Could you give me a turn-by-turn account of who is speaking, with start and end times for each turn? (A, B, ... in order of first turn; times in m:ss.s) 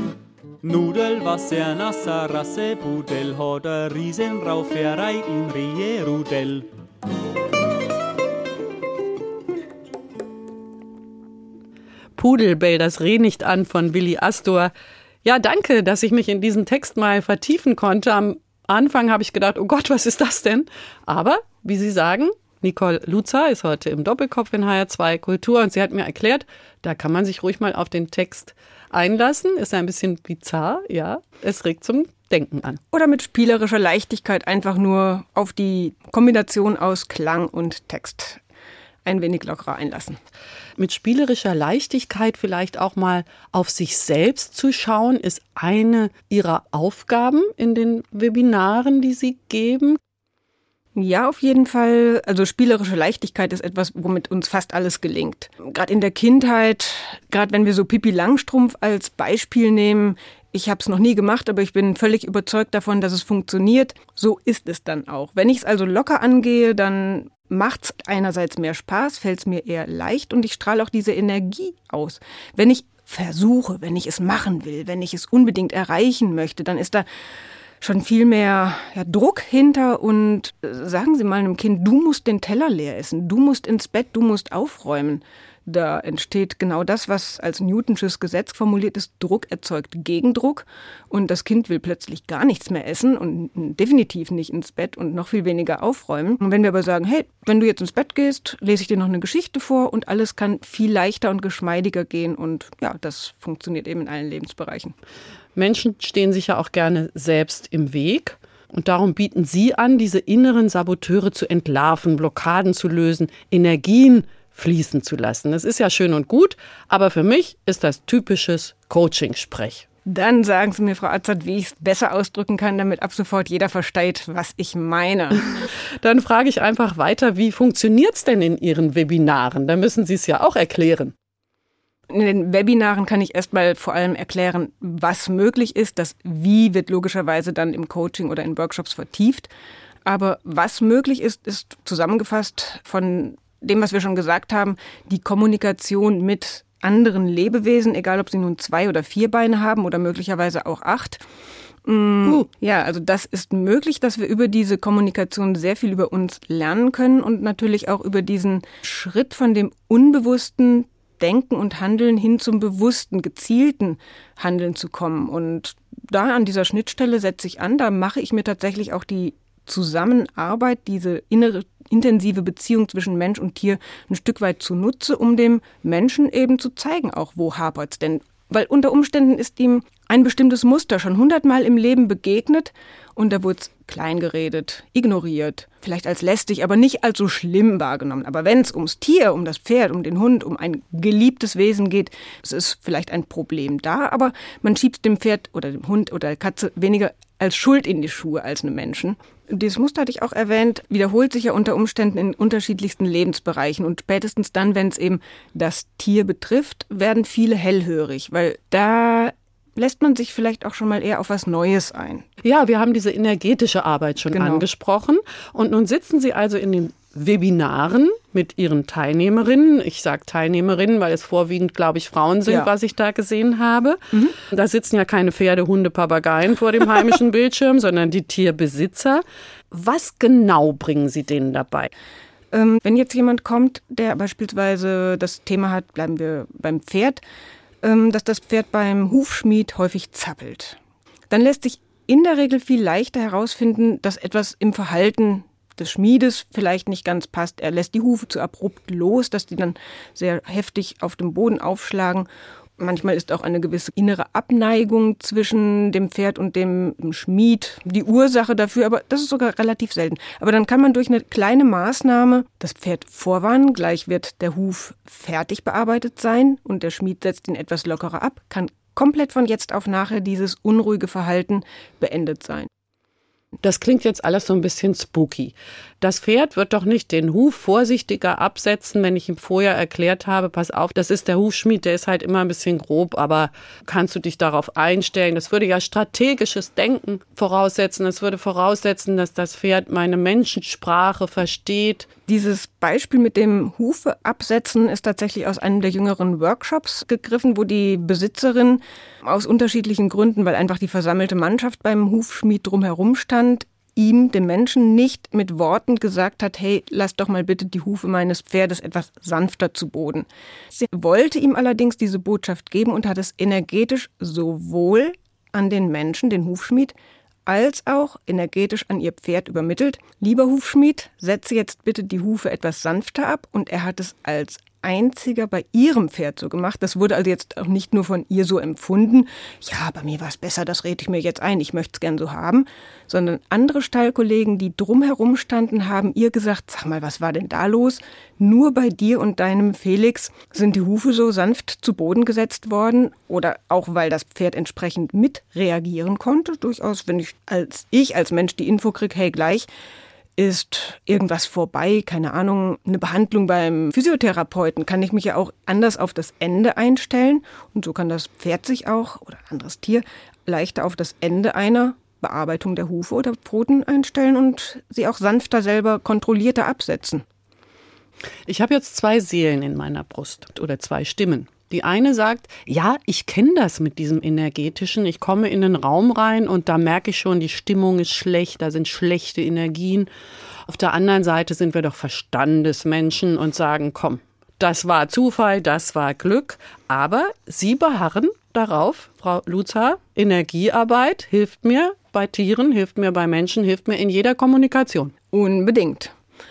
0:00.6-0:06.7 A
0:12.2-0:14.7 B
0:15.2-0:32.8 B
0:32.9-0:38.4 C
0:39.0-0:40.2 C
0:40.8-0:50.0 B
0:51.0-1:17.0 C
1:17.8-1:44.9 C
1:45.5-1:59.8 B
2:00.0-2:05.5 C
2:05.6-2:11.1 B
2:12.1-2:19.5 C
2:20.0-2:31.2 C
2:31.8-3:32.2 C
3:32.4-3:51.9 B
3:34.3-3:34.6 C
3:52.5-3:57.2 C
3:57.8-4:00.8 C
4:01.3-4:12.3 C
4:12.8-4:32.7 C
4:33.6-4:52.1 B
4:52.3-5:10.3 C
5:10.8-5:16.9 C
5:17.4-5:49.7 C
5:50.4-6:07.2 C
6:08.5-6:20.1 B
6:20.7-6:35.1 B
6:35.3-6:36.1 C